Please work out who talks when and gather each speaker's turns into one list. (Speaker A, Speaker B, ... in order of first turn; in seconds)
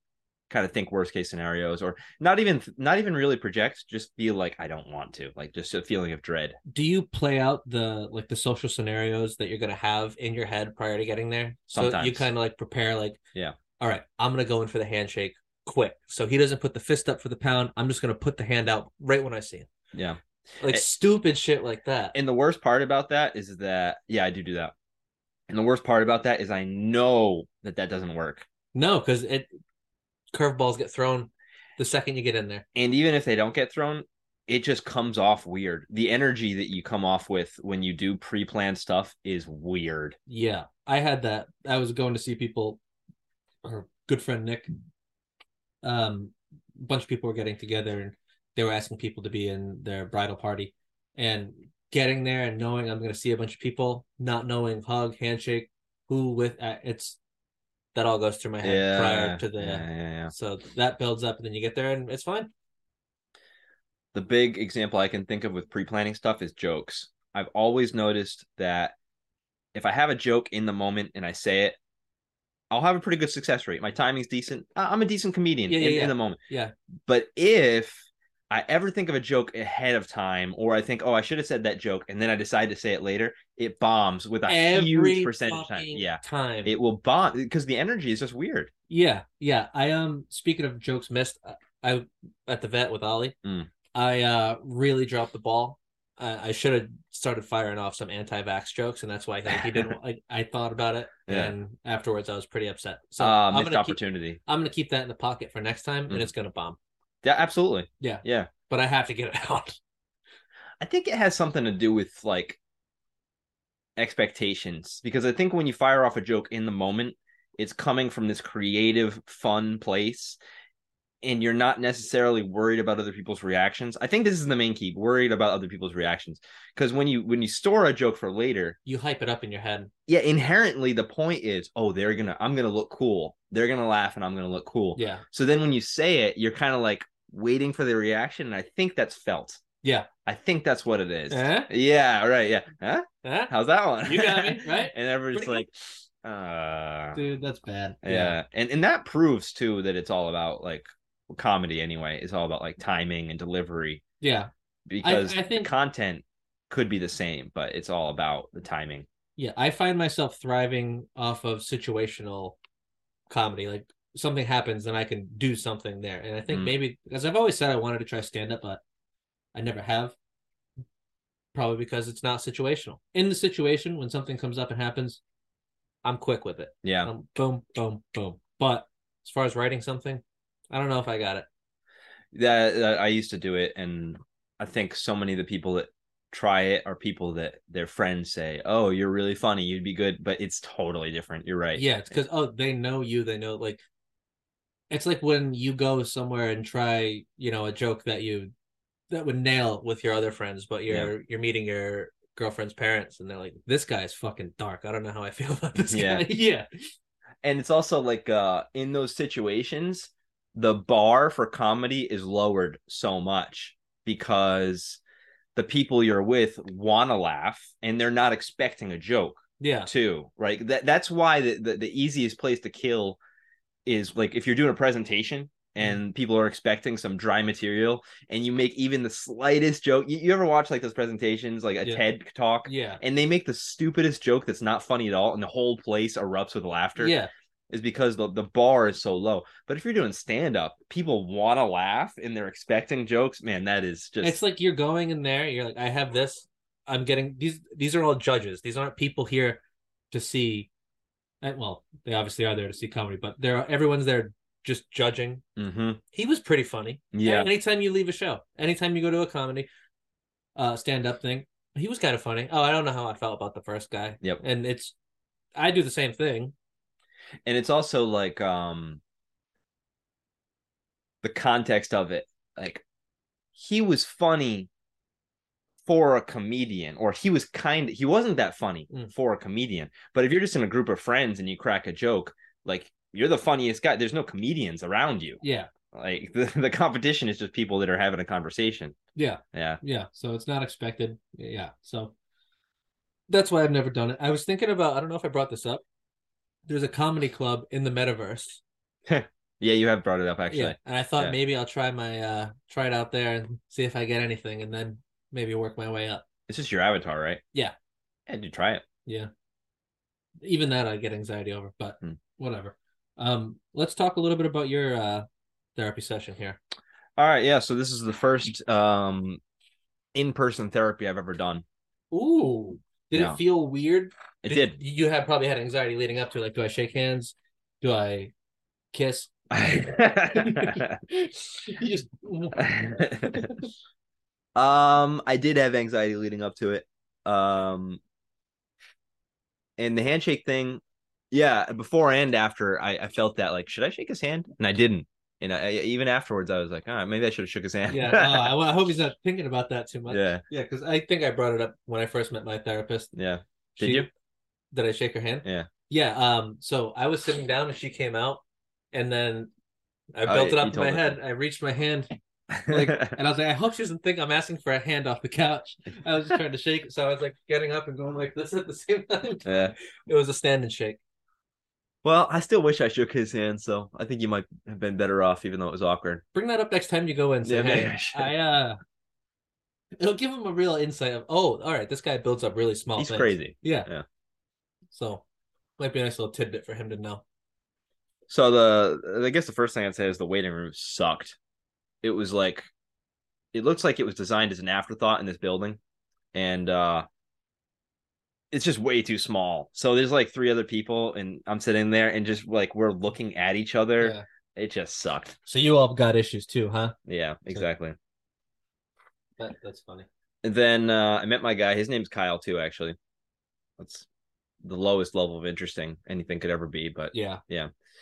Speaker A: 0.5-6.6, 11.7-12.3, 19.9-20.8, 22.1-24.7, 25.5-28.5, 32.8-40.2, 58.6-60.3, 64.1-69.0, 69.7-71.8, 72.7-76.4, 77.1-88.7, 93.4-93.7, 101.3-101.5, 103.2-104.4, 107.2-108.5, 110.8-112.6, 114.0-120.4, 121.2-128.8, 130.1-139.6, 140.3-145.7, 146.2-147.2, 148.0-154.0, 154.9-159.1, 166.5-166.8, 176.8-177.1, 182.3-191.8, 200.9-201.1, 205.9-206.3, 207.4-215.0, 215.6-223.2, 223.9-237.2, 237.7-244.4, 255.6-256.0, 257.1-257.5, 267.5-269.0, 271.2-272.8, 273.6-274.7, 275.9-285.4, 285.9-289.0, 289.5-289.8, 299.1-301.4, 306.5-307.4, 308.3-308.8, 317.2-319.4, 320.1-321.6, 323.1-323.4, 324.4-324.8, 329.5-331.0, 332.6-333.5, 334.6-338.0, 339.8-348.5, 350.1-350.4, 353.1-354.1, 360.2-361.2, 362.5-363.2, 369.4-369.8, 372.0-376.2, 377.4-378.3, 383.0-384.1, 388.3-391.4, 392.0-392.7, 393.5-395.8, 396.3-397.1, 398.5-405.4, 407.1-408.0, 410.4-413.0, 413.8-414.1, 414.6-417.7
Speaker B: 6.7-13.2, 13.8-19.7, 20.6-22.1, 28.7-29.5, 30.3-32.6, 40.3-42.8, 43.6-44.7, 45.8-57.2, 57.9-62.5, 75.7-76.7, 84.5-86.8, 88.9-93.4, 93.9-106.8, 108.0-109.8, 128.8-129.9, 135.0-135.2, 139.8-140.1, 141.3-141.7, 143.2-143.5, 144.0-145.6, 147.1-148.4, 154.2-154.5, 155.0-155.7, 159.4-162.6, 163.3-168.8, 169.5-170.2, 171.5-175.2, 176.0-181.5, 191.8-193.8, 194.9-198.5, 199.1-206.7, 219.6-219.9, 232.7-233.0, 237.0-237.3, 244.2-250.7, 251.4-255.4, 256.1-259.7, 260.6-264.9, 265.6-266.5, 285.4-285.7, 289.2-292.1, 293.3-295.8, 296.7-298.6, 300.5-306.2, 310.4-315.2, 315.8-316.6, 322.1-328.3, 328.9-329.3, 330.3-333.7, 347.9-353.1, 353.8-354.1, 354.7-358.4, 358.9-359.5, 360.1-362.1, 362.7-371.0, 376.3-378.8, 380.0-383.9, 384.9-385.2, 385.8-387.2, 404.0-404.2, 405.4-407.0, 409.4-410.1, 417.1-417.4